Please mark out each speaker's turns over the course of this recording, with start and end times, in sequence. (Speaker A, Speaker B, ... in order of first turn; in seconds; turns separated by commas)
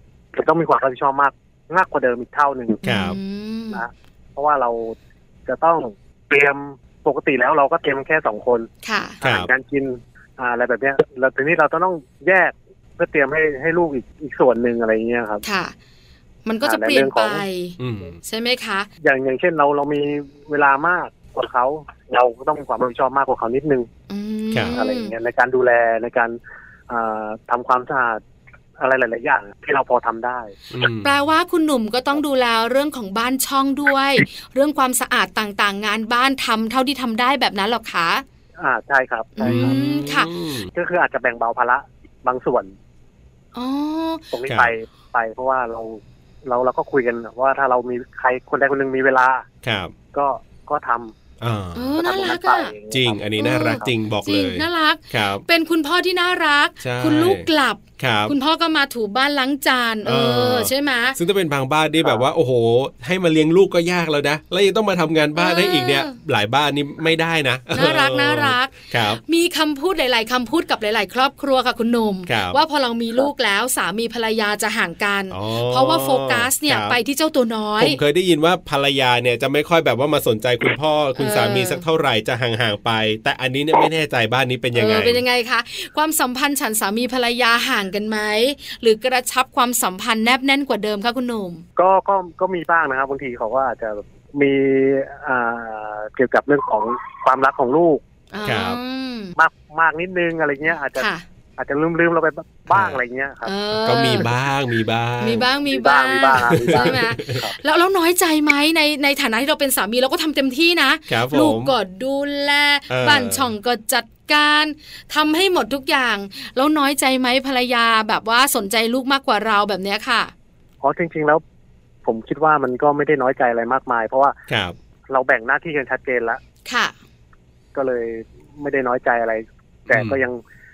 Speaker A: 0.3-2.8, Speaker B: 2.8-3.8, Speaker C: 2.9-3.2, Speaker A: 3.7-8.7, Speaker B: 8.8-9.2, Speaker A: 9.2-15.4, Speaker C: 9.2-9.5, Speaker B: 15.4-15.7, Speaker B: 16.4-18.9, Speaker A: 16.6-17.4, Speaker C: 17.8-18.2, Speaker A: 19.0-23.9, Speaker B: 24.1-25.1, Speaker C: 24.5-24.8, Speaker A: 24.7-26.4, Speaker A: 26.9-28.2, Speaker A: 28.8-30.5, Speaker C: 30.7-31.1, Speaker B: 31.0-38.2, Speaker A: 38.6-39.8, Speaker B: 39.4-40.3, Speaker C: 39.5-40.7, Speaker A: 40.7-42.7, Speaker B: 43.5-44.3, Speaker A: 44.3-49.5, Speaker C: 44.5-44.7, Speaker C: 49.6-50.0, Speaker A: 50.1-51.1, Speaker C: 51.4-52.0, Speaker B: 51.8-52.7, Speaker A: 52.0-53.9, Speaker C: 52.9-55.4, Speaker B: 53.4-61.2, Speaker C: 56.8-57.5, Speaker C: 58.0-58.3, Speaker C: 60.0-69.2, Speaker B: 65.4-66.2, Speaker B: 67.7-78.0, Speaker C: 72.3-72.6, Speaker C: 75.3-77.0, Speaker C: 77.8-85.2, Speaker B: 81.2-81.8, Speaker B: 84.7-91.6, Speaker A: 91.8-98.0, Speaker B: 98.3-99.3, Speaker C: 98.4-98.8, Speaker A: 99.4-101.1, Speaker B: 101.0-101.2, Speaker A: 101.6-103.5, Speaker C: 102.7-103.0, Speaker B: 103.4-104.3, Speaker C: 103.8-105.5, Speaker B: 105.2-120.3, Speaker A: 105.7-107.6, Speaker C: 106.3-107.4, Speaker C: 111.1-111.8, Speaker C: 112.9-113.5, Speaker A: 120.8-121.4, Speaker A: 122.0-124.3, Speaker C: 124.5-124.8, Speaker A: 125.1-126.4, Speaker B: 126.7-127.0, Speaker A: 127.8-130.4, Speaker C: 129.9-130.2